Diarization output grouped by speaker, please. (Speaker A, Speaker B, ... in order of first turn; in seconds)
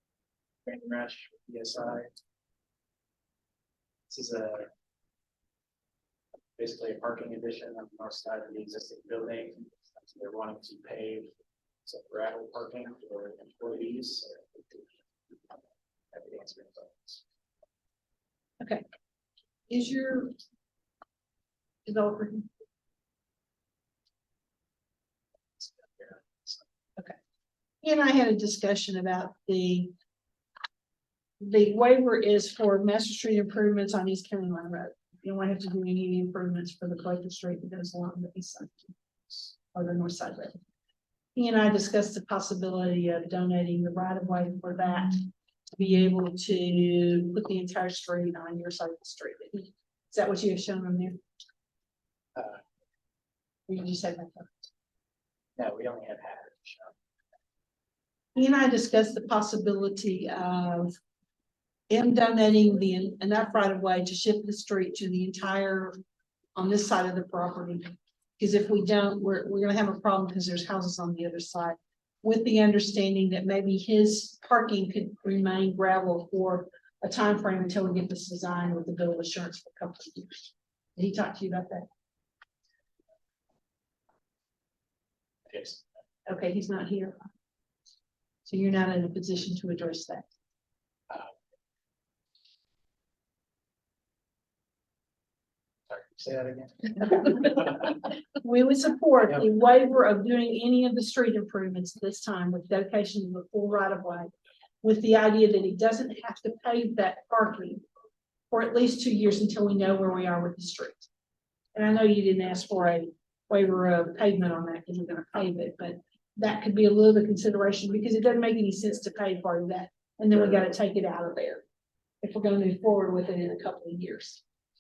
Speaker A: 0.7-2.1, 4.1-4.7, 6.6-11.3, 11.8-14.8, 16.1-17.2, 25.6-26.6, 55.6-56.9, 85.5-85.8, 95.9-97.6
Speaker B: 19.7-20.3, 21.9-22.5, 27.8-29.9, 31.4-38.9, 39.7-40.6, 41.4-51.2, 53.7-54.7, 58.4-60.9, 61.9-66.0, 66.5-81.9, 86.3-87.2, 88.5-90.3, 98.4-104.3, 104.8-107.8, 108.5-111.1, 111.7-121.6, 122.2-124.4